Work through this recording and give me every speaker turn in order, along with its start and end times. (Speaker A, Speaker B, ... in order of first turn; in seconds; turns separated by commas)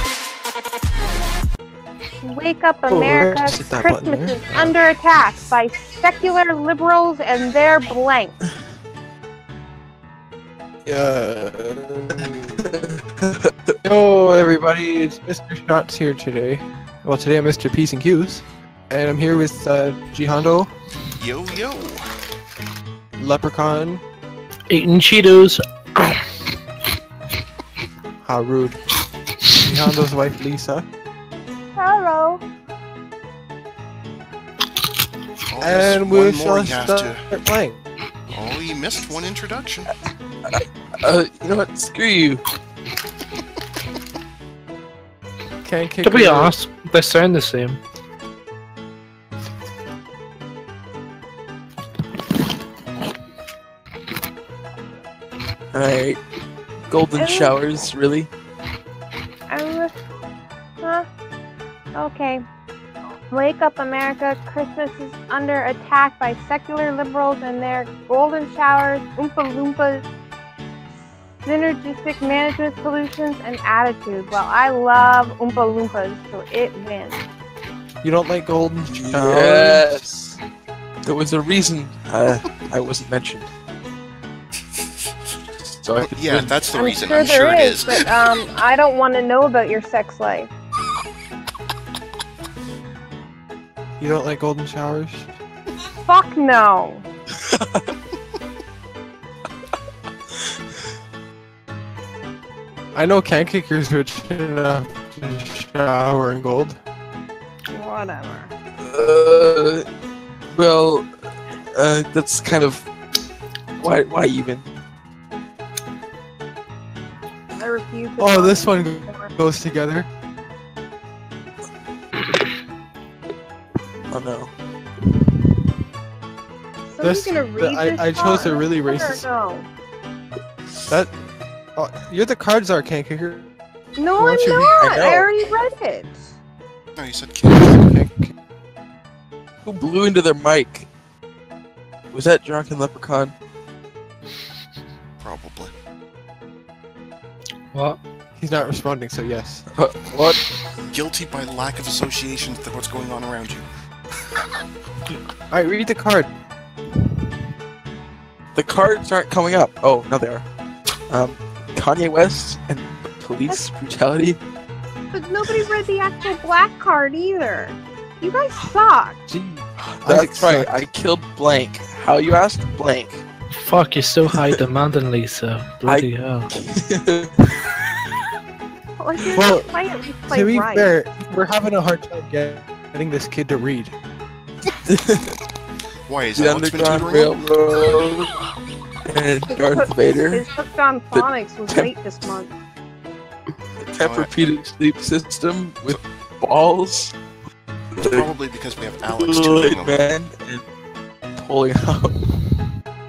Speaker A: 2.2-8.4, Speaker B: 2.9-4.8, Speaker B: 10.8-12.7, Speaker C: 12.6-13.8, Speaker B: 13.8-20.7, Speaker D: 21.2-22.1, Speaker B: 23.2-24.0, Speaker E: 24.7-26.4, Speaker B: 28.2-28.8, Speaker B: 29.6-30.9, Speaker A: 31.8-32.4, Speaker D: 35.5-37.2, Speaker B: 35.6-37.8, Speaker D: 38.3-39.9, Speaker C: 40.5-42.4, Speaker B: 45.6-46.5, Speaker E: 46.0-47.8, Speaker C: 55.7-56.2, Speaker C: 56.9-58.3, Speaker A: 57.1-57.6, Speaker A: 59.5-60.0, Speaker A: 60.8-61.1, Speaker A: 61.9-62.4, Speaker A: 63.3-70.1, Speaker A: 71.5-77.2, Speaker B: 78.0-80.0, Speaker C: 78.9-80.4, Speaker C: 81.0-83.5, Speaker C: 85.7-86.5, Speaker D: 86.2-88.1, Speaker A: 86.7-90.5, Speaker B: 94.0-95.3, Speaker A: 96.1-97.1, Speaker C: 97.4-97.9, Speaker B: 102.9-106.8, Speaker A: 107.7-108.5, Speaker C: 108.8-109.9, Speaker C: 110.5-111.1, Speaker C: 111.7-112.9, Speaker C: 113.8-114.7, Speaker A: 117.6-119.3, Speaker B: 118.2-120.1, Speaker C: 124.1-124.5, Speaker A: 126.9-129.7, Speaker B: 127.0-129.2, Speaker B: 131.8-133.5, Speaker A: 134.0-136.2, Speaker B: 134.2-135.3, Speaker C: 134.8-135.1, Speaker D: 137.0-138.0, Speaker B: 137.6-138.3, Speaker C: 139.6-140.9, Speaker C: 142.1-143.3, Speaker D: 145.2-145.7, Speaker E: 147.7-148.0, Speaker B: 148.4-149.7, Speaker C: 149.7-150.5, Speaker D: 150.8-153.7, Speaker B: 155.5-156.3, Speaker C: 158.5-160.4, Speaker C: 161.1-164.4, Speaker A: 165.1-169.2, Speaker B: 169.3-170.7, Speaker C: 170.1-173.2, Speaker E: 173.5-176.5, Speaker C: 175.9-177.6, Speaker A: 179.0-180.9, Speaker B: 179.3-179.7, Speaker B: 180.3-184.0, Speaker C: 184.8-185.4, Speaker D: 186.1-187.6, Speaker C: 186.3-188.3, Speaker C: 189.0-190.5, Speaker A: 189.7-192.5, Speaker C: 191.1-191.9, Speaker C: 193.8-197.2, Speaker D: 194.0-194.3, Speaker C: 197.9-198.3, Speaker D: 198.0-200.0, Speaker C: 199.0-200.6, Speaker C: 201.3-202.4